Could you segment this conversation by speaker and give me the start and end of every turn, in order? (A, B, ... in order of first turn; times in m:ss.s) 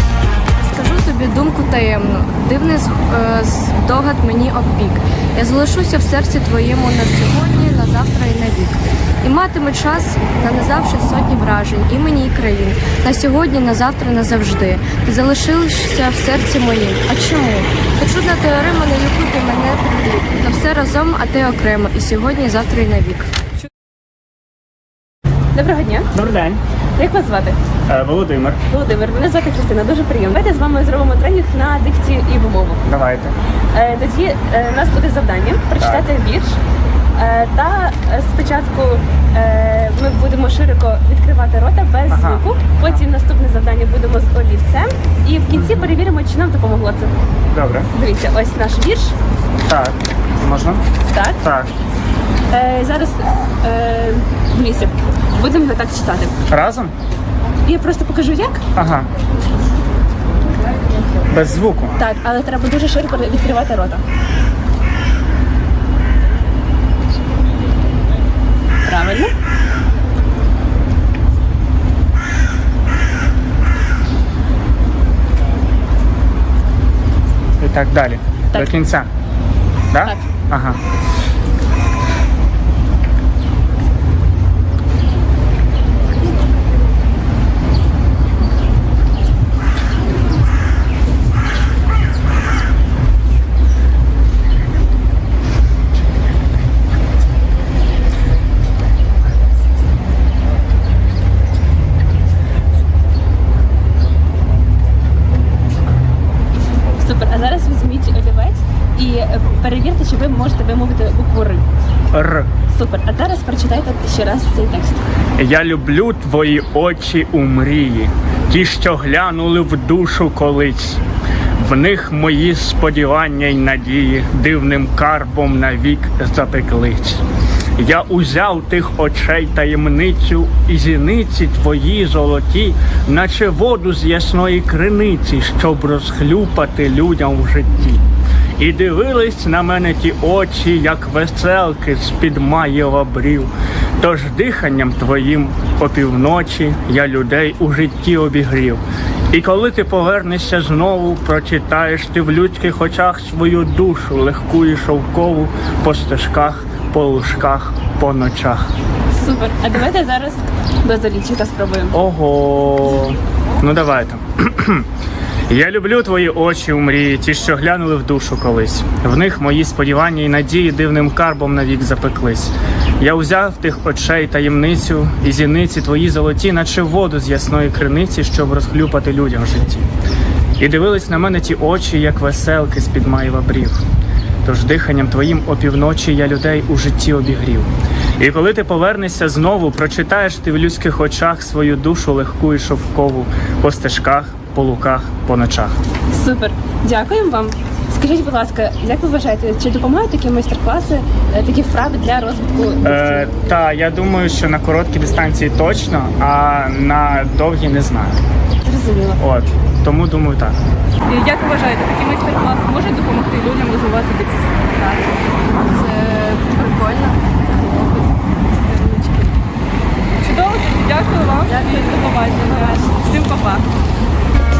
0:00.6-0:23.3 A
0:25.5-0:26.1 B
0:26.1-0:26.6 C
0:27.0-0:27.6 B
0:27.9-0:28.6 C
0:28.7-0:32.8 B
0:32.8-0:33.4 C
0:33.7-0:36.6 B
0:35.8-0:36.1 C
0:37.2-0:47.1 B
0:42.1-0:43.0 C
0:45.5-0:46.0 C
0:47.5-0:47.9 C
0:47.9-0:49.2 B
0:49.7-0:50.8 C
0:51.1-0:51.4 B
0:51.4-0:51.8 C
0:52.5-0:56.4 B
0:56.5-0:56.9 C
0:57.6-0:58.6 B
0:58.8-0:59.1 C
1:00.7-1:01.1 B
1:01.3-1:02.0 C
1:02.0-1:04.0 B
1:08.8-1:09.3 B
1:17.6-1:19.1 C
1:19.9-1:20.8 C
1:47.0-1:51.6 B
1:52.1-1:52.5 C
1:52.7-1:55.0 B
1:55.4-2:01.0 C
2:01.6-2:07.2 C
2:07.8-2:18.0 C
2:18.6-2:28.8 C
2:29.3-2:38.7 C
2:39.1-2:42.0 B
2:41.9-2:44.9 C
2:45.5-2:59.9 C
3:00.6-3:03.8 C
3:04.4-3:15.8 C
3:16.1-3:23.3 B
3:22.8-3:28.2 C
3:28.6-3:29.2 B
3:29.2-3:30.6 C
3:31.1-3:35.2 D
3:35.5-3:39.4 A
3:40.2-3:43.7 D
3:41.5-3:42.7 A